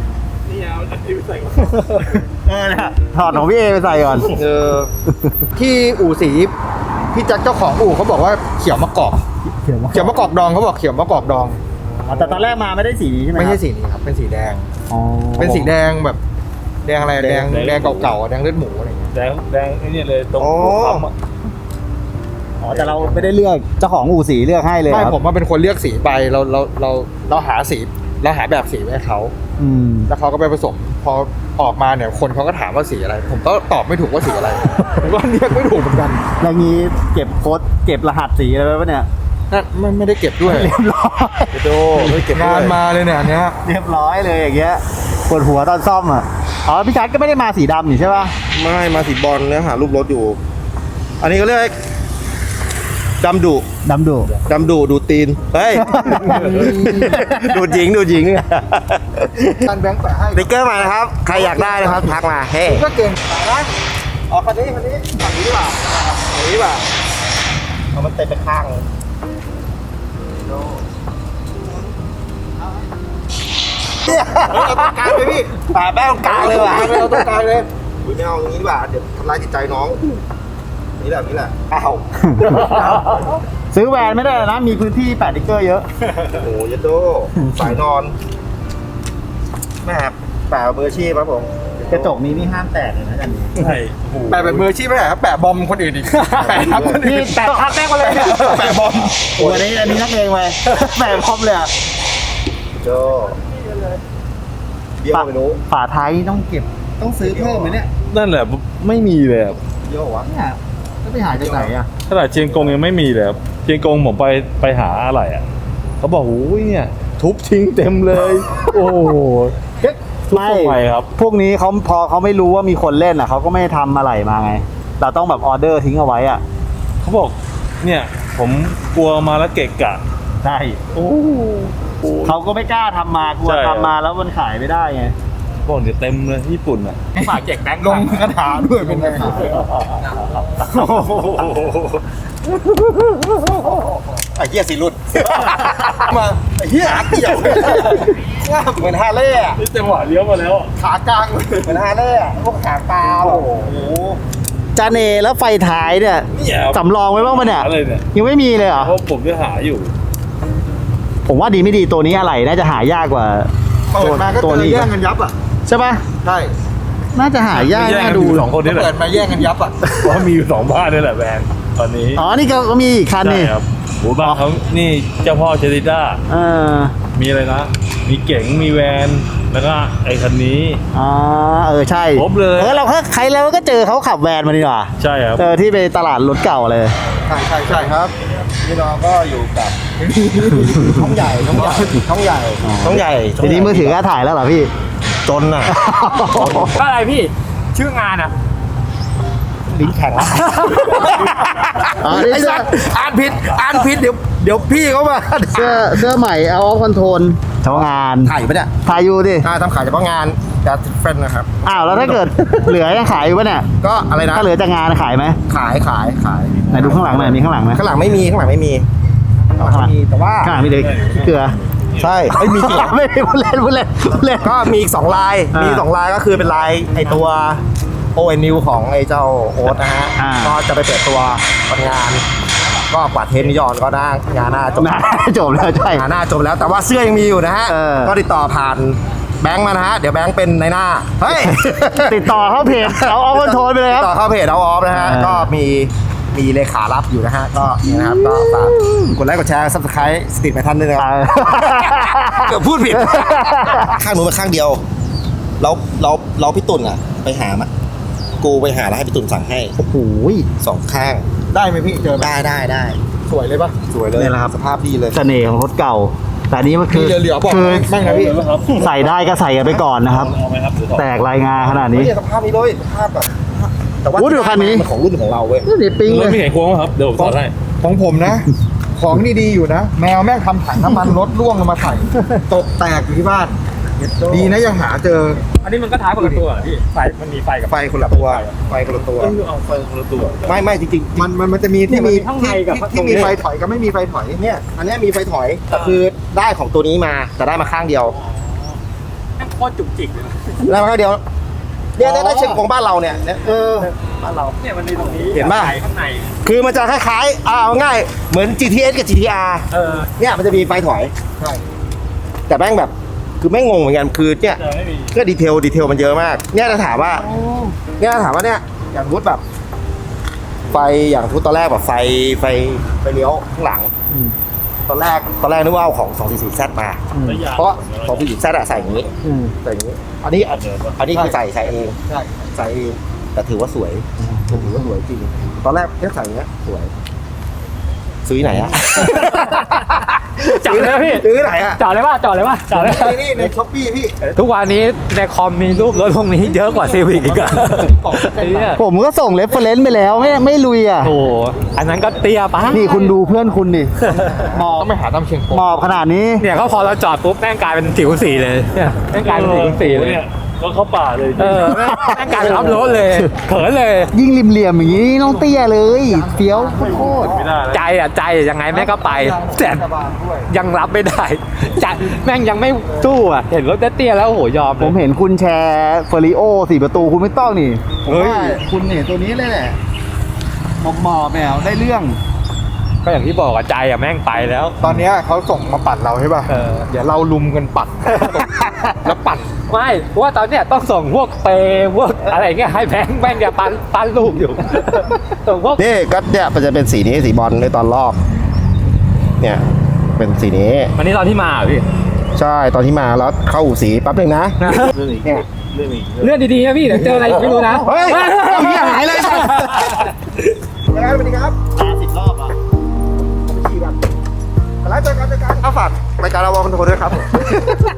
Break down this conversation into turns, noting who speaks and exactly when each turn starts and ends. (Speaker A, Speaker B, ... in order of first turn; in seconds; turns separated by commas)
Speaker A: 0.5-2.1, Speaker B: 2.4-4.3, Speaker C: 4.3-4.9, Speaker B: 5.1-5.4, Speaker D: 5.5-6.5, Speaker D: 7.1-9.2, Speaker B: 9.4-10.2, Speaker D: 9.9-12.2, Speaker B: 12.1-13.6, Speaker D: 13.3-14.7, Speaker B: 14.9-15.8, Speaker D: 15.4-16.2, Speaker D: 16.8-19.1, Speaker B: 17.1-17.5, Speaker A: 17.3-18.2, Speaker A: 19.1-21.1, Speaker C: 20.4-21.1, Speaker B: 22.6-25.2, Speaker D: 22.8-23.3, Speaker D: 24.9-29.3, Speaker B: 29.6-30.1, Speaker D: 30.1-36.2, Speaker B: 36.4-39.1, Speaker D: 39.5-40.7, Speaker B: 40.4-42.2, Speaker C: 41.5-42.8, Speaker D: 42.3-43.6, Speaker B: 43.6-48.3, Speaker C: 48.5-50.4, Speaker C: 51.2-51.8, Speaker C: 53.2-53.7, Speaker B: 53.8-54.3, Speaker C: 54.5-59.7, Speaker B: 55.7-57.8, Speaker D: 56.2-57.3, Speaker D: 59.7-60.7, Speaker C: 60.3-62.9, Speaker D: 61.2-63.7, Speaker C: 64.3-65.6, Speaker D: 65.1-65.9, Speaker C: 66.2-66.8, Speaker C: 67.9-68.8, Speaker C: 70.4-70.8, Speaker C: 74.0-80.0, Speaker D: 74.7-75.2, Speaker D: 76.2-77.7, Speaker C: 81.0-82.2, Speaker B: 82.3-85.9, Speaker C: 86.2-88.2, Speaker B: 87.4-87.7, Speaker C: 89.8-92.2, Speaker B: 91.9-93.7, Speaker A: 93.5-94.7, Speaker D: 94.3-97.4, Speaker E: 96.1-98.8, Speaker C: 96.6-96.9, Speaker B: 96.9-98.6, Speaker D: 98.0-99.4, Speaker B: 99.2-101.7, Speaker C: 102.8-103.4, Speaker C: 105.0-105.6, Speaker B: 105.1-107.9, Speaker C: 107.2-107.8, Speaker A: 108.1-109.6, Speaker C: 109.8-110.3, Speaker B: 110.2-111.9, Speaker C: 111.3-111.7, Speaker A: 112.1-115.4, Speaker A: 116.0-119.5, Speaker B: 119.8-126.4, Speaker A: 120.3-121.1, Speaker A: 127.0-130.0, Speaker B: 130.4-130.8, Speaker A: 130.9-132.4, Speaker B: 132.2-135.1, Speaker A: 133.4-133.9, Speaker A: 135.6-137.0, Speaker E: 137.1-138.2, Speaker D: 137.2-139.6, Speaker B: 139.0-139.5, Speaker A: 139.3-140.0, Speaker A: 140.6-142.0, Speaker C: 144.2-146.1, Speaker D: 145.9-148.8, Speaker C: 147.2-147.5, Speaker C: 148.5-149.6, Speaker A: 149.6-150.7, Speaker D: 150.8-151.8, Speaker C: 151.6-154.2, Speaker D: 153.2-153.6, Speaker B: 154.7-158.9, Speaker A: 156.3-158.1, Speaker A: 158.8-159.9, Speaker B: 161.3-164.9, Speaker D: 163.9-165.3, Speaker B: 165.7-166.1, Speaker D: 166.2-166.5, Speaker B: 167.1-168.5, Speaker A: 167.5-168.9, Speaker D: 168.6-169.8, Speaker A: 170.0-172.2, Speaker B: 172.2-173.5, Speaker A: 173.2-176.2, Speaker B: 176.3-176.9, Speaker A: 177.1-180.8, Speaker B: 180.9-186.9, Speaker A: 182.1-182.9, Speaker A: 185.0-185.4, Speaker C: 187.3-189.9, Speaker D: 187.6-187.9, Speaker D: 190.0-191.9, Speaker B: 190.6-191.1, Speaker C: 190.7-194.0, Speaker B: 192.6-194.7, Speaker C: 195.2-195.8, Speaker B: 195.7-196.8, Speaker E: 196.3-198.3, Speaker C: 199.7-206.1, Speaker E: 200.2-201.0, Speaker B: 201.9-202.7, Speaker B: 205.5-209.5, Speaker C: 207.7-208.7, Speaker C: 209.4-212.6, Speaker B: 211.6-213.7, Speaker C: 213.8-214.5, Speaker B: 214.3-215.4, Speaker C: 215.5-218.8, Speaker A: 216.6-217.1, Speaker B: 216.7-217.8, Speaker C: 219.6-220.6, Speaker B: 219.6-221.6, Speaker A: 220.4-222.3, Speaker C: 222.0-222.9, Speaker B: 222.3-224.7, Speaker C: 224.4-227.6, Speaker B: 225.5-225.9, Speaker C: 228.1-232.2, Speaker B: 230.2-230.6, Speaker C: 232.9-235.0, Speaker B: 234.8-236.1, Speaker C: 235.8-254.8, Speaker B: 237.7-238.1, Speaker B: 241.3-244.1, Speaker B: 244.9-245.5, Speaker B: 247.8-249.2, Speaker B: 251.0-254.0, Speaker C: 255.6-257.7, Speaker C: 258.4-259.7, Speaker B: 259.8-260.5, Speaker C: 260.6-261.3, Speaker D: 261.5-262.4, Speaker C: 262.0-263.0, Speaker D: 263.2-264.3, Speaker C: 263.9-265.2, Speaker B: 264.1-264.5, Speaker B: 265.1-268.0, Speaker D: 266.9-268.4, Speaker A: 267.9-271.1, Speaker B: 268.8-270.3, Speaker B: 270.9-272.1, Speaker C: 271.8-275.7, Speaker B: 274.1-274.9, Speaker B: 275.6-276.4, Speaker A: 276.0-277.5, Speaker D: 277.8-283.6, Speaker D: 284.3-285.4, Speaker E: 285.6-288.6, Speaker D: 286.2-286.6, Speaker C: 287.7-289.4, Speaker A: 288.8-290.6, Speaker C: 290.4-291.3, Speaker D: 291.1-294.4, Speaker E: 291.9-293.3, Speaker C: 292.9-293.4, Speaker C: 294.4-298.1, Speaker E: 299.4-300.7, Speaker C: 300.6-301.2, Speaker C: 301.9-303.9, Speaker E: 302.0-302.6, Speaker E: 303.8-306.3, Speaker C: 305.3-305.8, Speaker C: 306.4-311.1, Speaker E: 309.7-310.1, Speaker D: 311.4-311.6, Speaker C: 312.5-314.6, Speaker A: 314.6-315.1, Speaker C: 315.1-317.2, Speaker B: 317.2-317.7, Speaker C: 318.0-319.4, Speaker C: 320.7-323.9, Speaker B: 324.1-324.3, Speaker C: 324.9-329.1, Speaker B: 327.1-327.4, Speaker A: 327.2-329.1, Speaker B: 329.2-329.5, Speaker C: 329.6-332.0, Speaker A: 330.4-331.0, Speaker D: 331.1-331.4, Speaker D: 332.0-332.5, Speaker C: 332.5-336.9, Speaker B: 334.2-334.8, Speaker C: 338.2-341.8, Speaker E: 339.2-339.7, Speaker E: 340.3-343.3, Speaker C: 342.7-344.1, Speaker D: 342.8-343.5, Speaker E: 344.3-348.8, Speaker D: 346.5-348.8, Speaker B: 348.8-351.1, Speaker E: 351.0-353.1, Speaker B: 352.7-354.9, Speaker E: 354.1-354.4, Speaker D: 354.6-355.7, Speaker B: 355.5-356.4, Speaker E: 356.4-360.2, Speaker A: 359.1-362.8, Speaker E: 361.4-364.1, Speaker B: 361.7-363.3, Speaker B: 364.1-367.4, Speaker D: 366.2-367.4, Speaker A: 366.6-367.9, Speaker E: 367.7-369.8, Speaker D: 368.7-370.5, Speaker E: 370.5-375.0, Speaker B: 374.8-379.8, Speaker D: 378.1-378.5, Speaker B: 380.8-382.2, Speaker E: 383.0-384.8, Speaker D: 384.8-389.6, Speaker E: 386.5-386.9, Speaker E: 388.1-388.4, Speaker E: 389.7-395.8, Speaker C: 395.8-398.2, Speaker C: 400.1-400.9, Speaker E: 400.9-401.9, Speaker C: 402.4-404.7, Speaker E: 404.6-404.9, Speaker A: 404.9-406.4, Speaker E: 406.2-410.1, Speaker C: 407.0-410.0, Speaker C: 410.9-411.6, Speaker B: 411.7-412.6, Speaker C: 413.4-414.0, Speaker C: 414.8-417.7